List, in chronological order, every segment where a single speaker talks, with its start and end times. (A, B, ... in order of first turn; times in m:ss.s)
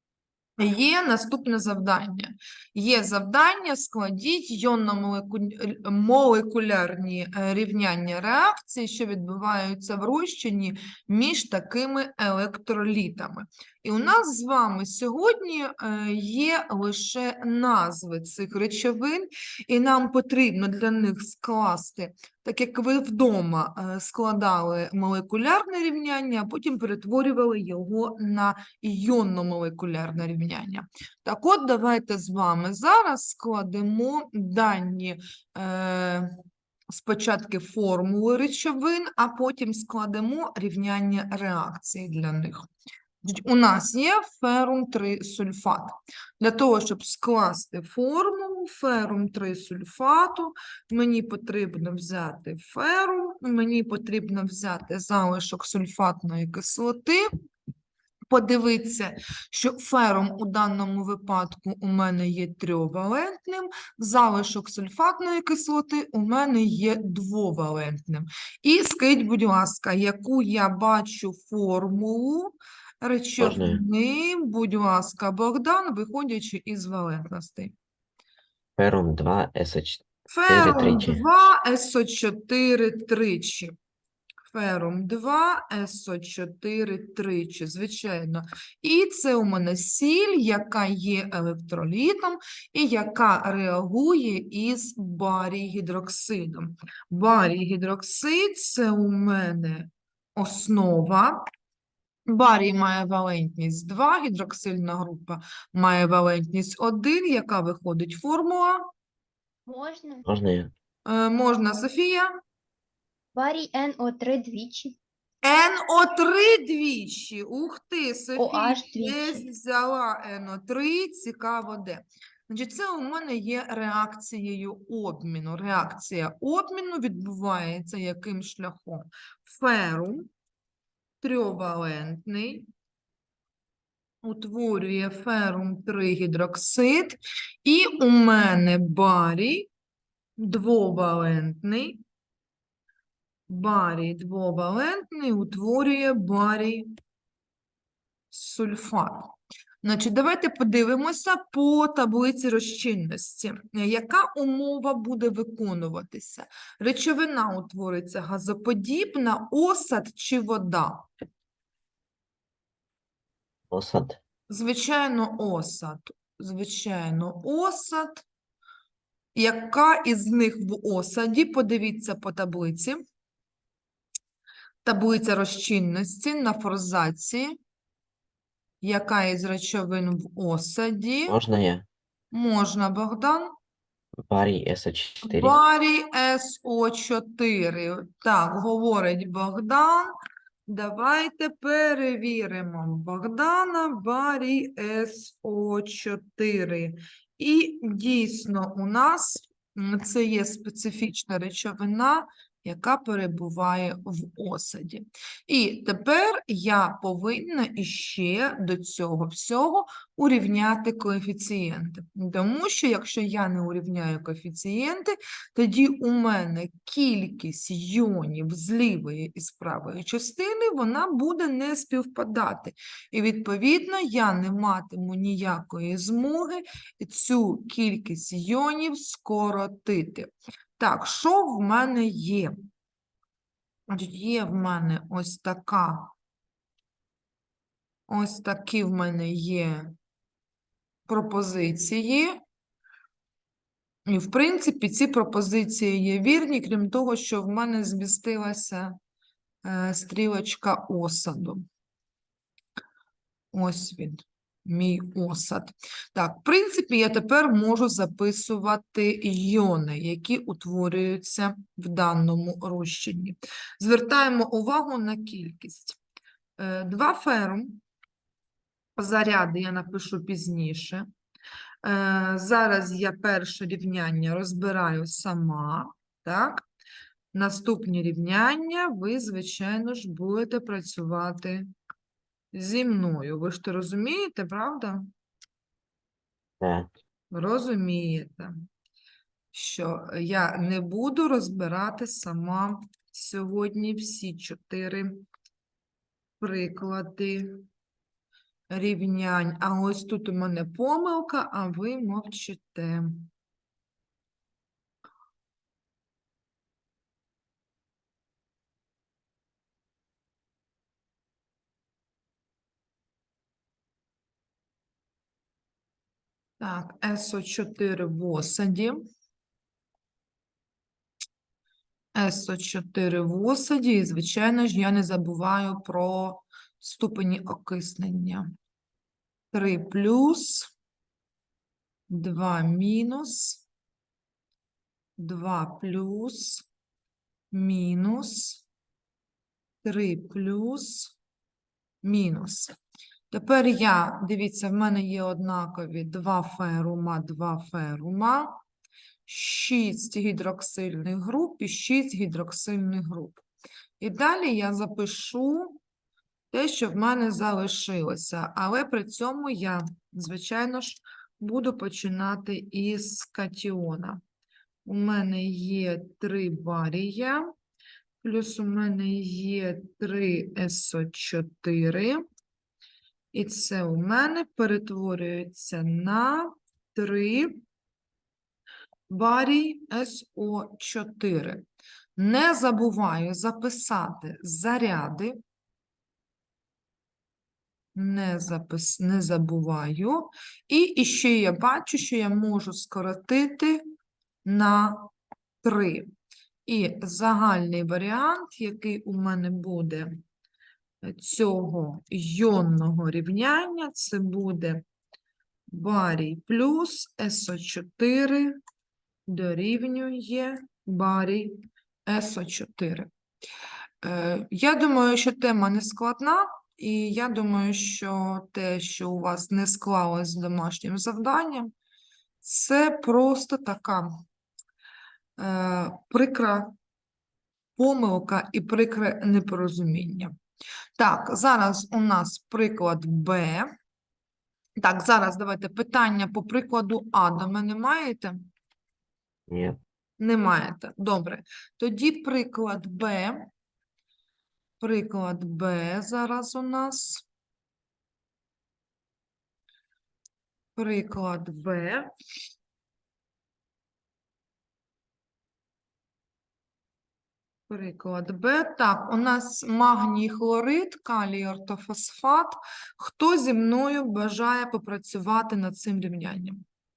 0:00.6-0:36.4 A
0:36.9-0:42.7 A
0:43.2-0:57.3 A
0:58.3-1:17.7 A
1:13.4-1:13.8 B
1:18.8-1:21.2 B
1:20.3-1:23.7 A
1:24.5-1:41.4 A
1:42.3-1:48.9 A
1:49.7-1:50.3 C
1:50.3-1:50.7 B
1:51.1-1:52.3 A
1:53.3-1:55.0 C
1:55.4-2:10.3 A
1:58.4-1:59.4 C
2:11.2-2:12.7 A
2:14.2-2:19.7 A
2:20.4-2:22.0 A
2:23.5-2:26.9 A
2:28.3-2:41.1 A
2:43.7-2:44.2 B
2:44.5-2:48.2 A
2:49.3-2:53.0 A
2:54.8-2:57.6 A
2:58.8-3:01.4 A
3:01.3-3:01.8 B
3:02.3-3:03.5 A
3:04.3-3:05.6 B
3:05.2-3:10.1 A
3:10.7-3:52.5 A
3:53.9-3:56.1 A
3:58.1-3:59.9 A
4:01.1-4:02.4 A
4:04.1-4:09.0 A
4:09.6-4:11.6 A
4:13.5-4:26.0 A
4:26.6-4:27.8 A
4:29.0-4:31.1 A
4:31.8-4:36.6 A
4:37.3-4:41.7 A
4:42.5-4:45.1 A
4:46.6-4:46.9 B
4:47.3-4:48.5 A
4:49.5-4:55.2 A
4:56.4-4:57.6 A
4:58.7-5:03.3 A
5:16.6-5:19.0 A
5:22.1-5:28.5 A
5:29.5-5:30.7 A
5:32.1-5:33.6 A
5:35.2-5:36.6 A
5:37.5-5:38.6 A
5:39.8-5:41.1 A
5:42.0-5:42.8 A
5:43.3-5:48.6 A
5:49.3-5:53.4 A
5:54.0-5:55.8 A
5:56.5-6:04.2 A
6:04.8-6:07.5 A
6:08.2-6:12.2 A
6:13.3-6:17.6 A
6:19.1-6:21.6 A
6:22.2-6:25.4 A
6:27.9-6:33.8 A
6:34.4-6:35.1 A
6:35.6-6:36.1 A
6:36.6-6:40.2 A
6:41.0-6:44.8 A
6:45.7-6:48.6 A
6:49.3-6:53.1 A
6:54.0-7:01.7 A
7:02.4-7:04.2 A
7:05.4-7:06.7 A
7:07.8-7:10.3 A
7:11.0-7:13.7 A
7:14.8-7:18.4 A
7:19.5-7:19.8 B
7:20.2-7:23.5 A
7:24.8-7:27.2 A
7:30.8-7:32.1 A
7:37.7-7:46.6 A